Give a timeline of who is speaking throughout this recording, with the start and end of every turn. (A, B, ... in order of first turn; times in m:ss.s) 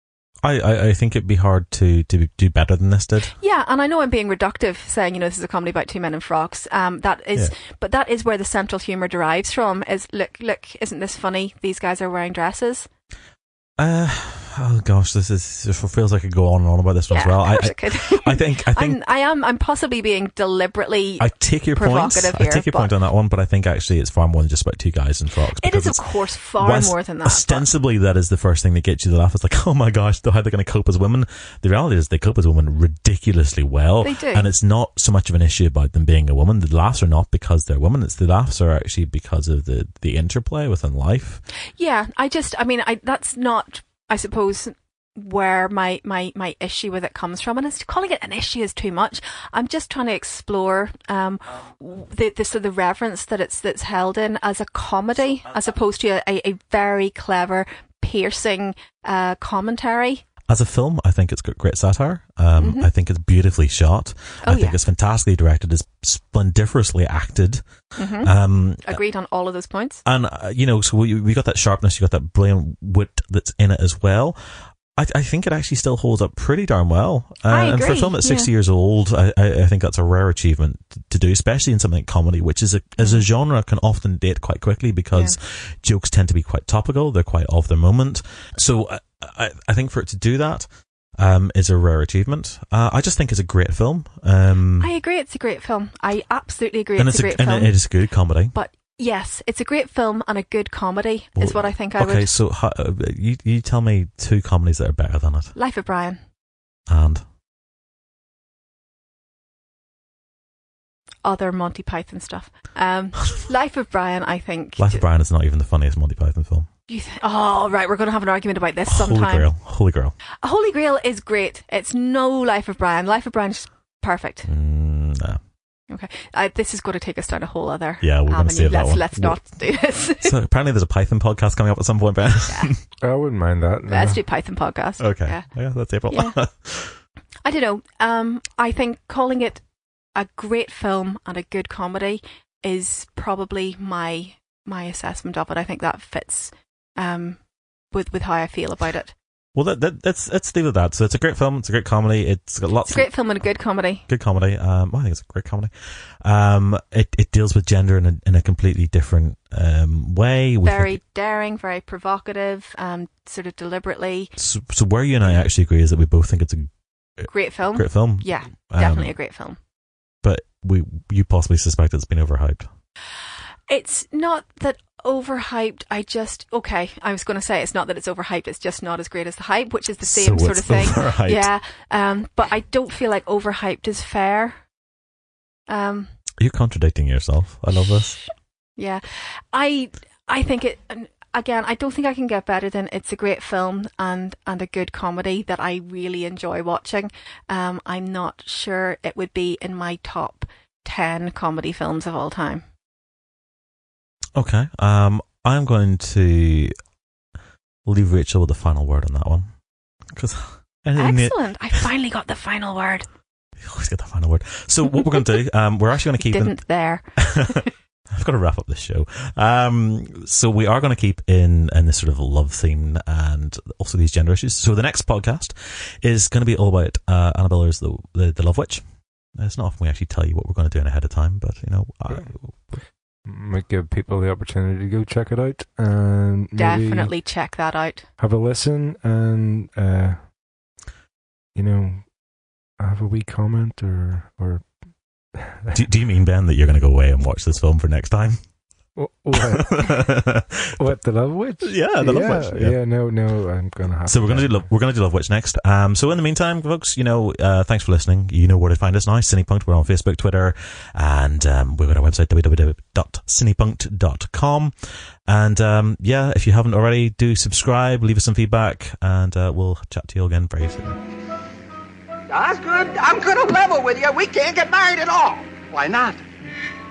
0:00.4-0:03.3 A
0:03.4-0:12.9 B
0:13.8-0:19.0 A
0:17.1-0:22.9 B
0:21.2-0:41.4 A
0:25.6-0:27.7 B
0:34.0-0:34.5 B
0:41.8-1:00.2 B
1:00.5-1:07.6 A
1:02.6-1:02.9 B
1:04.4-1:04.8 B
1:08.0-1:10.0 B
1:08.2-1:09.0 A
1:10.0-1:30.7 A
1:17.5-1:18.5 B
1:23.0-1:23.2 B
1:31.2-1:34.9 A
1:34.8-1:37.8 B
1:37.0-1:38.6 A
1:38.5-1:42.3 B
1:41.4-1:45.6 A
1:45.6-1:46.2 B
1:46.9-1:47.2 A
1:51.2-1:55.0 B
1:54.8-1:56.7 A
1:56.9-1:59.5 B
1:58.9-2:00.2 A
2:00.4-2:04.5 B
2:04.4-2:05.4 A
2:05.9-2:10.3 B
2:08.0-2:09.7 A
2:10.2-2:12.8 A
2:12.5-2:12.7 B
2:13.0-2:14.2 C
2:13.9-2:15.5 B
2:15.0-2:17.0 A
2:16.1-2:16.4 B
2:17.4-2:19.6 B
2:20.1-2:27.4 B
2:27.9-2:29.1 B
2:29.6-2:33.1 A
2:32.9-2:34.0 B
2:34.1-2:41.0 A
2:40.6-2:44.3 B
2:44.4-2:49.1 A
2:47.3-2:49.6 B
2:50.2-2:52.7 A
2:53.7-3:04.6 B
3:00.0-3:01.5 A
3:05.7-3:06.1 B
3:06.4-3:08.2 A
3:07.8-3:22.6 B
3:24.4-3:26.7 A
3:27.8-3:29.5 A
3:30.1-3:31.9 A
3:31.0-3:33.1 B
3:33.6-3:52.8 A
3:36.2-3:37.7 B
3:52.1-3:57.1 C
3:56.6-3:58.1 B
3:58.2-4:00.2 C
4:01.5-4:02.1 C
4:02.8-4:04.7 C
4:05.3-4:05.8 C
4:05.7-4:08.4 A
4:09.0-4:09.9 C
4:09.5-4:13.0 A
4:10.8-4:14.6 C
4:14.0-4:31.0 A
4:32.3-4:36.2 D